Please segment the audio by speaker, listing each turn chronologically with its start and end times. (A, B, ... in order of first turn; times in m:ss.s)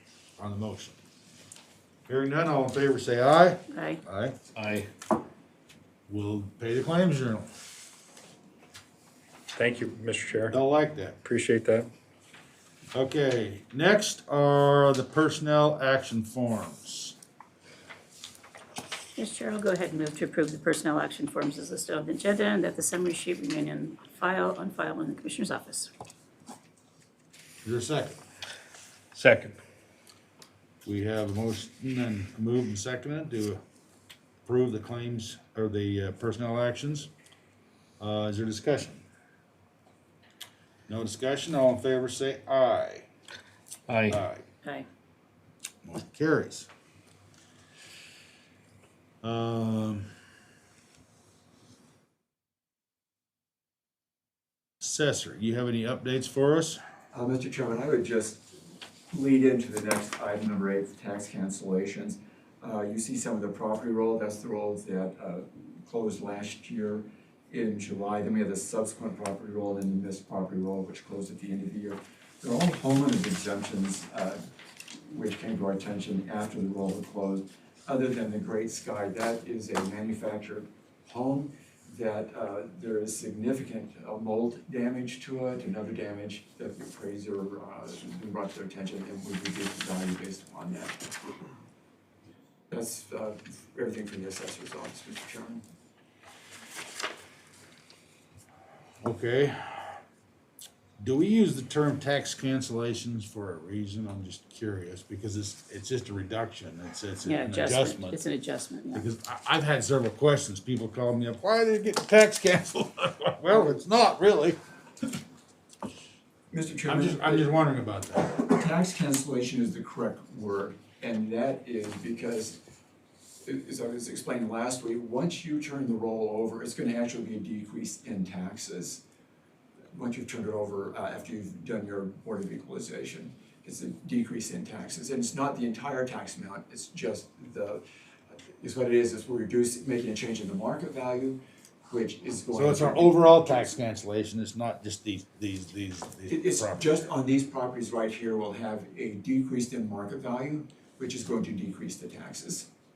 0:00.4-0:01.0 A
0:02.1-0:04.3 A
0:03.7-0:04.0 B
0:04.6-0:04.9 C
0:06.1-0:07.5 A
0:09.6-0:10.6 C
0:10.5-0:11.2 A
0:11.2-0:11.9 C
0:12.9-0:17.2 A
0:19.2-0:25.9 B
0:27.6-0:28.2 A
0:29.1-0:29.6 C
0:30.8-0:33.6 A
0:34.4-0:37.1 A
0:38.0-0:39.0 A
0:40.9-0:43.0 A
0:43.9-0:44.2 C
0:44.1-0:44.4 A
0:45.8-0:46.7 A
0:49.2-0:50.0 A
0:54.8-0:56.8 A
0:57.1-0:58.6 D
0:59.1-1:31.1 D
1:32.7-1:35.6 D
1:39.0-1:40.0 A
1:41.0-1:48.2 A
1:47.3-1:49.0 B
1:48.9-1:54.6 A
1:56.5-1:57.5 D
1:56.9-1:58.5 A
1:58.4-2:02.6 D
2:03.4-2:09.0 D
2:09.9-2:17.8 D
2:18.6-2:23.7 D
2:22.5-2:27.0 A
2:26.3-2:32.7 D